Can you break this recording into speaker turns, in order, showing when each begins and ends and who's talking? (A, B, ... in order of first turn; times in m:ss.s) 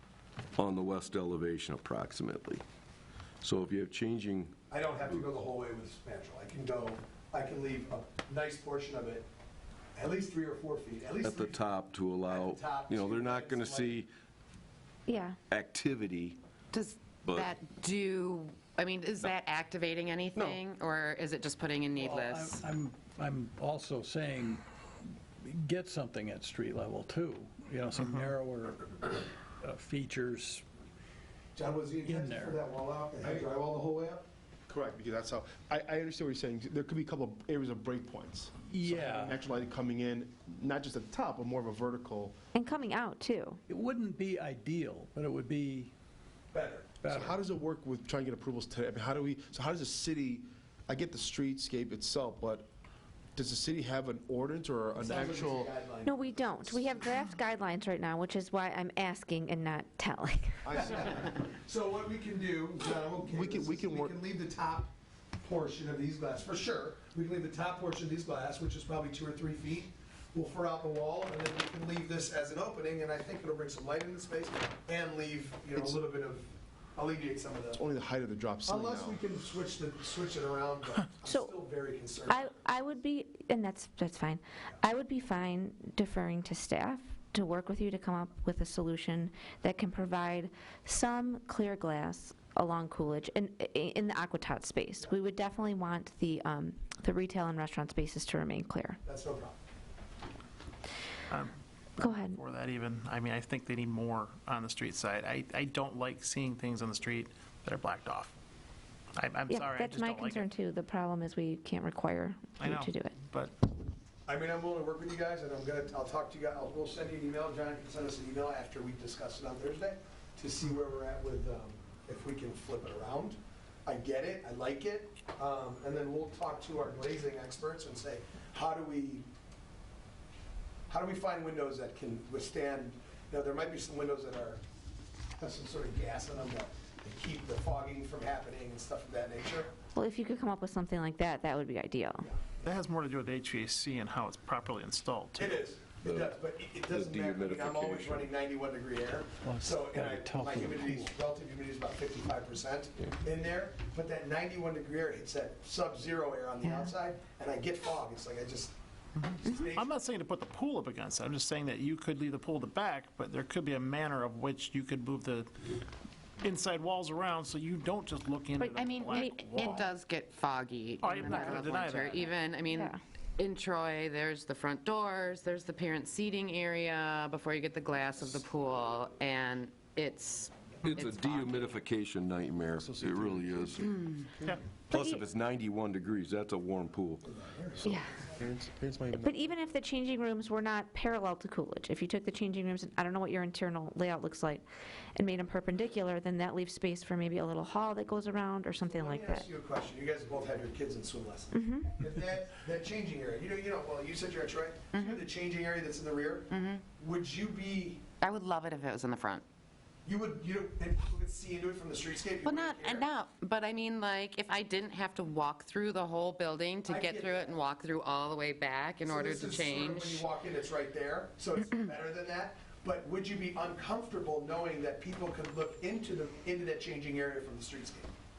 0:00.5-0:02.6 A
0:03.4-0:04.6 A
0:04.7-0:09.2 B
0:10.0-0:11.6 B
0:11.2-0:14.1 A
0:12.2-0:14.0 B
0:15.1-0:15.4 C
0:15.5-0:16.4 A
0:16.7-0:22.6 D
0:17.2-0:17.5 A
0:21.9-0:24.6 E
0:25.4-0:30.6 E
0:31.5-0:34.2 B
0:32.0-0:32.6 E
0:34.7-0:42.4 F
0:38.7-0:39.4 E
0:42.5-0:43.6 C
0:43.7-0:45.9 E
0:46.5-0:46.9 B
0:47.0-0:47.4 E
0:47.0-0:52.7 F
0:53.4-0:55.7 F
0:55.0-0:56.8 B
0:56.0-1:00.8 C
1:00.6-1:01.2 F
1:00.9-1:04.9 B
1:03.2-1:04.1 F
1:05.4-1:17.8 B
1:17.7-1:19.2 F
1:18.7-1:22.4 B
1:21.3-1:21.5 C
1:22.3-1:39.0 C
1:39.0-1:39.6 B
1:41.3-1:48.3 G
1:42.0-1:42.4 C
1:49.2-1:50.5 G
1:49.5-1:53.2 C
1:52.6-1:53.5 G
1:54.3-2:09.3 B
2:10.9-2:14.6 B
2:15.4-2:19.7 B
2:19.9-2:22.2 C
2:22.2-2:22.6 B
2:22.6-2:25.6 G
2:25.4-2:38.8 B
2:26.0-2:28.3 A
2:29.4-2:31.2 E
2:39.2-2:45.7 G
2:39.4-2:39.9 B
2:46.4-2:49.9 G
2:48.6-2:49.8 C
2:48.8-3:01.8 D
2:51.0-2:52.3 G
2:52.7-2:53.0 C
3:00.8-3:03.9 A
3:02.8-3:04.6 F
3:04.9-3:05.2 C
3:04.9-3:07.3 A
3:07.2-3:08.4 B
3:07.8-3:08.2 C
3:08.4-3:09.4 F
3:09.2-3:14.6 C
3:15.2-3:19.5 C
3:18.9-3:28.0 B
3:21.5-3:22.0 C
3:24.9-3:25.2 D
3:26.5-3:26.8 D
3:28.2-3:29.4 D
3:30.0-3:33.1 B
3:32.4-3:40.3 D
3:36.8-3:37.6 B
3:39.0-3:48.1 B